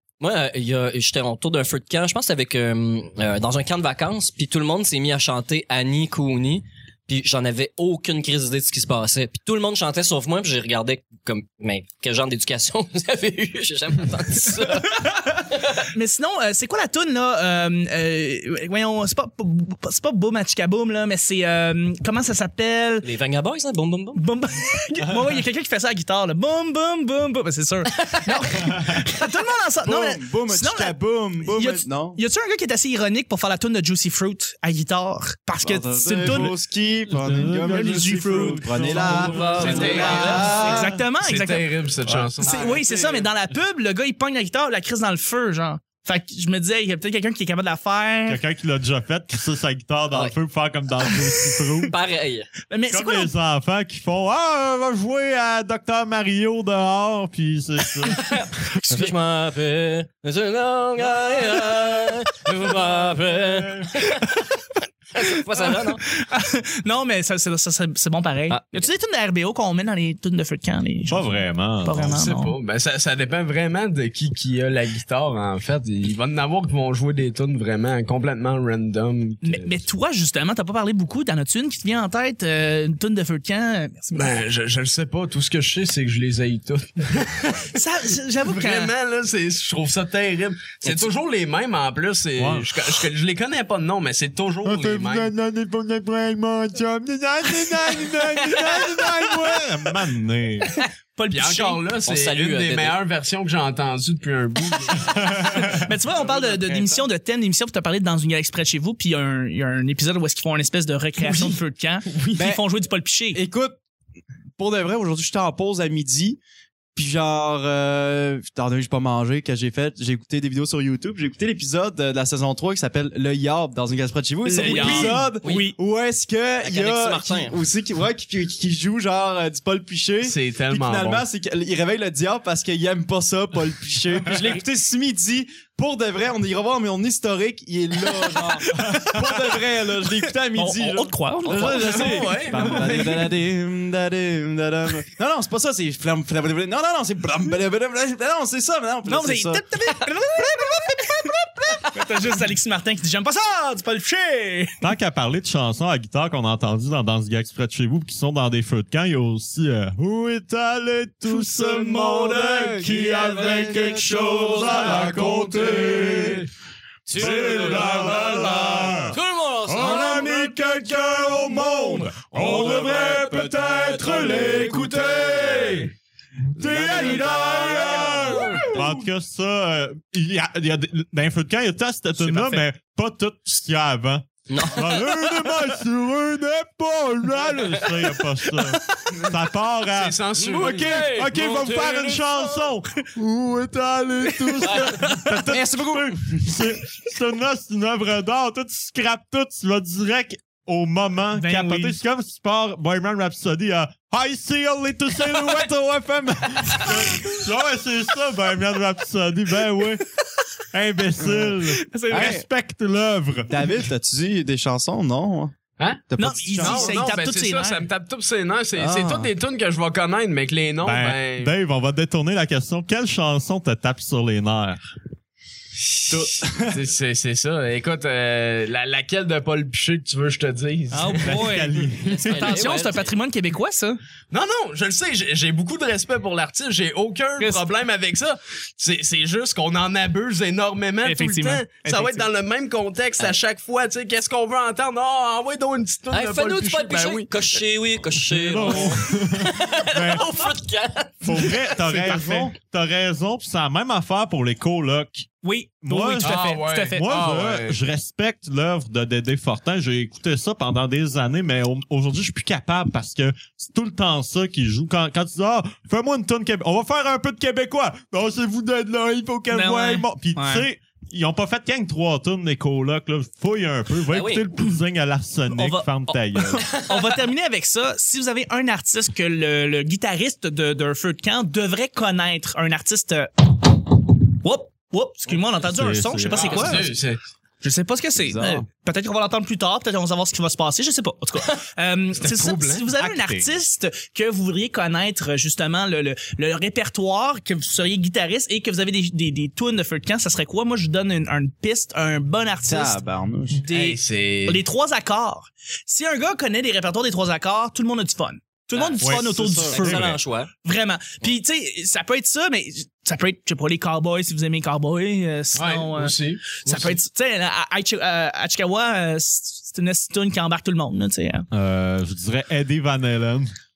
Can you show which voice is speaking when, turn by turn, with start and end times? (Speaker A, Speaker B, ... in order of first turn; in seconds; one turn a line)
Speaker A: 0.2-15.7
Speaker B: 15.9-23.1
Speaker A: 23.0-24.2
Speaker B: 24.1-36.5
Speaker A: 28.0-28.4
Speaker C: 29.8-32.2
Speaker C: 35.6-41.0
Speaker D: 37.1-40.0
Speaker B: 37.7-41.7
Speaker A: 39.1-40.6
Speaker E: 39.6-42.8
Speaker D: 42.0-42.3
Speaker C: 42.4-43.3
Speaker B: 42.4-48.4
Speaker D: 48.3-52.0
Speaker A: 51.8-52.5
Speaker B: 52.7-53.3
Speaker D: 52.9-58.3
Speaker A: 58.0-64.3
Speaker D: 63.3-63.9
Speaker B: 64.0-64.5
Speaker A: 65.1-66.0
Speaker B: 65.5-72.5
Speaker A: 68.5-68.8
Speaker D: 71.1-72.2
Speaker E: 72.1-79.8
Speaker B: 79.4-84.4
Speaker E: 84.1-87.8
Speaker B: 87.7-88.9
Speaker E: 88.4-95.3
Speaker D: 92.3-92.8
Speaker D: 94.6-100.8
Speaker B: 98.5-99.0
Speaker B: 100.7-101.8
Speaker E: 101.3-105.5
Speaker A: 102.0-103.0
Speaker D: 105.0-105.9
Speaker B: 105.5-113.4
Speaker C: 106.2-107.0
Speaker C: 111.2-111.6
Speaker C: 112.2-112.6
Speaker C: 113.3-113.8
Speaker C: 114.6-116.4
Speaker C: 117.0-152.3
Speaker B: 124.4-125.8
Speaker A: 124.6-125.7
Speaker A: 126.6-127.6
Speaker E: 130.2-131.2
Speaker B: 138.3-139.0
Speaker B: 140.5-142.7
Speaker E: 141.5-143.3
Speaker B: 149.1-151.2
Speaker B: 151.8-154.8
Speaker D: 154.8-166.5
Speaker C: 163.1-164.5
Speaker A: 167.1-168.4
Speaker D: 167.1-175.9
Speaker A: 169.1-170.5
Speaker A: 172.4-173.3
Speaker A: 174.2-174.9
Speaker D: 176.6-210.0
Speaker A: 176.7-178.7
Speaker B: 182.2-182.6
Speaker A: 184.5-185.2
Speaker E: 189.8-191.1
Speaker A: 190.4-192.5
Speaker A: 194.6-195.2
Speaker B: 194.7-195.2
Speaker C: 195.3-196.6
Speaker B: 201.3-201.9
Speaker B: 206.7-207.4
Speaker B: 209.8-210.4
Speaker D: 210.7-213.8
Speaker C: 211.2-211.5
Speaker B: 211.7-212.4
Speaker C: 212.1-212.4
Speaker C: 213.5-215.5
Speaker C: 216.1-217.2
Speaker B: 216.2-217.8
Speaker E: 216.6-221.5
Speaker C: 218.8-219.3
Speaker D: 220.8-224.8
Speaker C: 226.1-226.8
Speaker E: 226.1-231.5
Speaker B: 230.9-234.0
Speaker D: 231.2-232.7
Speaker A: 232.0-233.1
Speaker E: 234.3-247.6
Speaker B: 237.4-237.7
Speaker B: 241.0-242.3
Speaker A: 246.1-251.8
Speaker D: 248.2-250.3
Speaker D: 251.2-255.3
Speaker C: 252.0-252.4
Speaker B: 255.4-257.0
Speaker D: 255.8-276.8
Speaker E: 256.2-257.8
Speaker B: 269.5-270.6
Speaker A: 274.1-274.4
Speaker B: 275.5-283.5
Speaker A: 276.6-277.1
Speaker B: 284.4-286.9
Speaker D: 285.6-286.9
Speaker E: 286.3-287.2
Speaker B: 287.6-303.0
Speaker C: 288.2-288.6
Speaker E: 292.2-292.9
Speaker D: 292.9-293.5
Speaker C: 302.6-303.6
Speaker B: 303.5-310.1
Speaker E: 303.7-304.6
Speaker A: 308.7-309.1
Speaker D: 309.0-310.2
Speaker A: 309.6-310.5
Speaker B: 310.6-321.5
Speaker E: 315.5-317.0
Speaker D: 321.5-323.5